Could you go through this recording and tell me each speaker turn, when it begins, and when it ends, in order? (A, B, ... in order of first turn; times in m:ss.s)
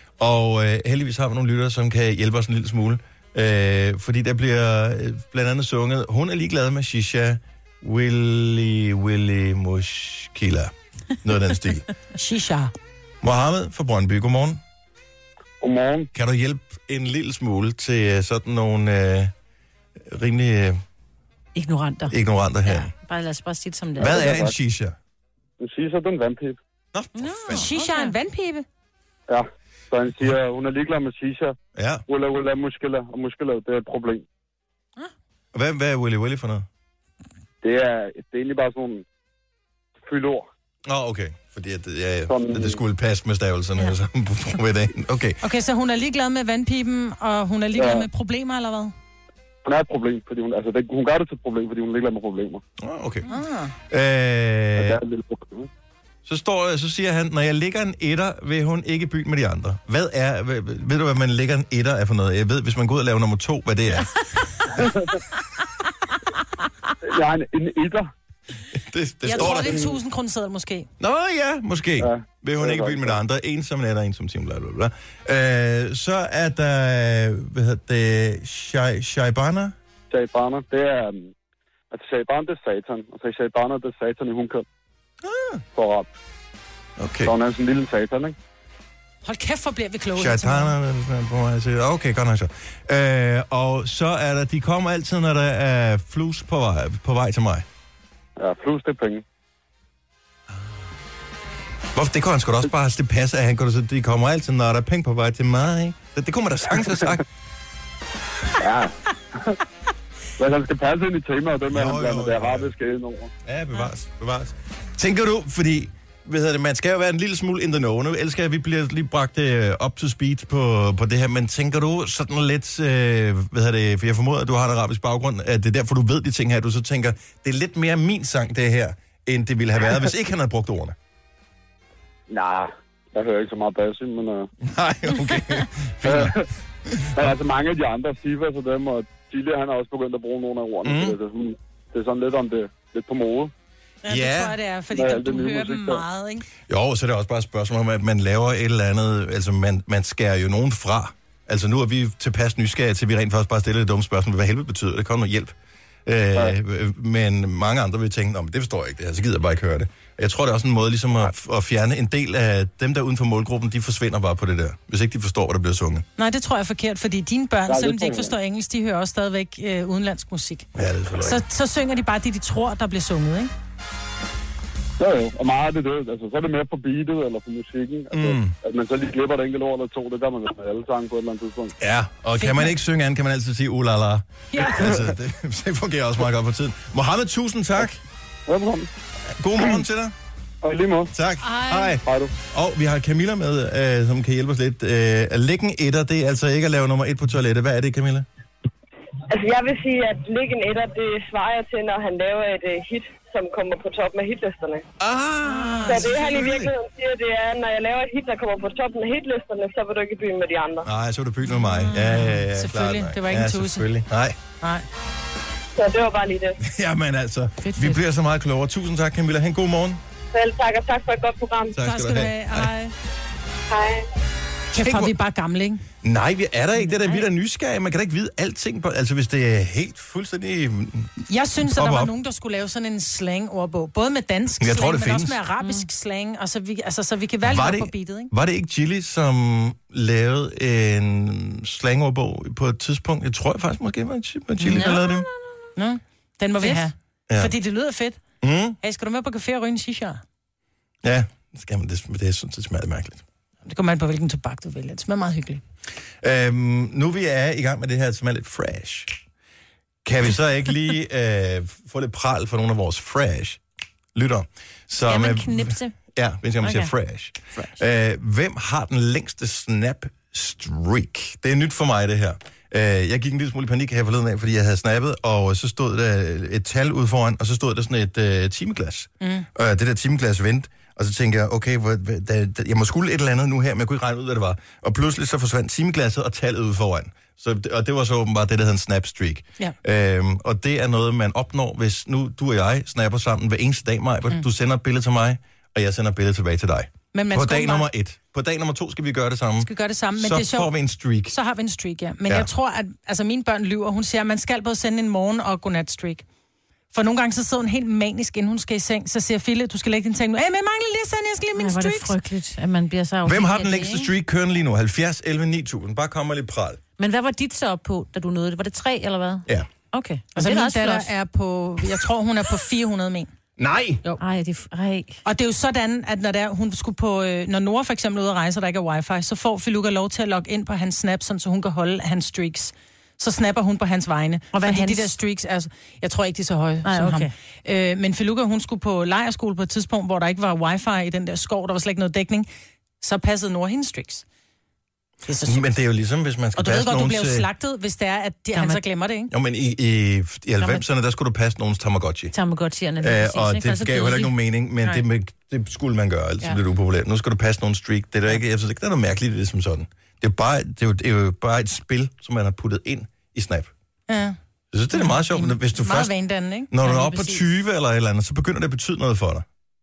0:00.2-0:11.9 A
0:12.2-0:12.7 B
0:13.2-0:14.6 A
0:15.6-0:16.1 C
0:16.1-0:19.3 A
0:20.0-0:20.8 A
0:21.6-0:22.2 D
0:22.1-0:22.9 A
0:22.7-0:24.4 D
0:24.0-0:25.0 A
0:24.0-0:24.5 C
0:25.6-0:26.6 C
0:26.9-0:27.7 A
0:27.2-0:28.1 D
0:27.5-0:28.6 B
0:29.3-0:31.6 C
0:31.8-0:32.0 A
0:32.1-0:34.3 C
0:35.5-0:36.7 A
0:37.6-0:39.0 C
0:40.0-0:40.5 C
0:40.9-0:45.4 A
0:42.3-0:42.8 C
0:45.4-0:48.9 B
0:47.8-0:48.1 C
0:49.6-0:52.6 C
0:52.8-0:53.3 A
0:53.3-0:53.7 B
0:53.9-0:55.0 A
0:54.8-0:55.7 C
0:56.2-1:04.1 A
1:04.8-1:05.1 C
1:07.0-1:08.1 C
1:08.7-1:09.9 A
1:09.2-1:10.9 B
1:09.4-1:09.9 C
1:11.0-1:19.8 A
1:12.0-1:13.2 C
1:20.1-1:21.3 C
1:21.9-1:24.6 C
1:25.2-1:25.6 A
1:25.8-1:26.1 C
1:27.0-1:27.3 A
1:27.2-1:28.4 C
1:29.2-1:30.7 B
1:30.2-1:37.7 A
1:38.4-1:39.2 C
1:41.9-1:47.2 A
1:48.6-1:49.6 C
1:50.4-1:53.3 C
1:51.7-1:52.7 A
1:53.4-2:11.0 A
2:12.3-2:14.5 C
2:14.6-2:17.2 A
2:16.0-2:16.4 C
2:17.2-2:23.5 C
2:20.8-2:21.2 A
2:24.0-2:26.5 B
2:24.1-2:24.6 A
2:24.9-2:26.0 C
2:26.7-2:35.6 A
2:36.1-2:46.0 A
2:46.2-2:50.7 B
2:47.7-2:48.3 C
2:50.8-2:51.4 A
2:51.2-2:53.5 B
2:55.0-3:01.8 C
2:58.1-2:58.6 A
3:01.8-3:08.0 A
3:02.4-3:02.7 B
3:04.5-3:04.9 B
3:08.5-3:08.9 C
3:09.4-3:10.1 A
3:10.6-3:11.1 C
3:11.1-3:18.2 A
3:11.4-3:12.0 B
3:12.0-3:12.3 C
3:19.3-3:24.9 E
3:25.0-3:26.7 A
3:25.4-3:26.1 B
3:25.9-3:30.9 E
3:30.8-3:34.4 A
3:31.7-3:32.4 D
3:32.5-3:33.9 B
3:35.8-3:36.6 E
3:36.6-3:40.0 A
3:37.6-3:38.0 D
3:40.3-3:41.8 E
3:41.8-3:42.7 A
3:41.8-3:42.9 B
3:43.7-3:44.1 E
3:44.7-3:45.8 B
3:44.8-3:45.1 A
3:46.0-3:52.1 A
3:51.3-3:58.3 B
3:54.6-3:55.4 A
3:57.4-4:05.3 A
4:04.6-4:05.3 D
4:05.8-4:08.2 B
4:08.4-4:08.8 A
4:08.8-4:10.2 B
4:11.0-4:13.2 A
4:13.7-4:15.6 B
4:16.2-4:19.2 A
4:20.0-4:23.6 A
4:24.2-5:01.4 A
4:25.1-4:25.9 D
4:26.6-4:26.9 D
4:39.2-4:39.5 B
4:57.1-4:57.9 B
4:59.6-5:00.7 B
5:01.3-5:06.2 B
5:06.9-5:12.2 B
5:11.6-5:14.1 D
5:13.2-5:16.8 A
5:17.0-5:21.1 D
5:20.4-5:23.3 B
5:23.6-5:24.0 A
5:24.2-5:25.2 D
5:25.2-5:42.5 B
5:34.5-5:35.1 D
5:36.8-5:37.3 D
5:43.0-5:44.2 B
5:45.3-5:45.6 B
5:45.4-5:47.5 A
5:46.6-5:49.3 B
5:48.6-5:48.8 D
5:49.3-5:52.3 A
5:52.3-5:54.3 D
5:53.0-6:03.7 A
6:04.1-6:04.4 B
6:04.7-6:06.1 A
6:05.0-6:07.4 B
6:06.7-6:09.4 A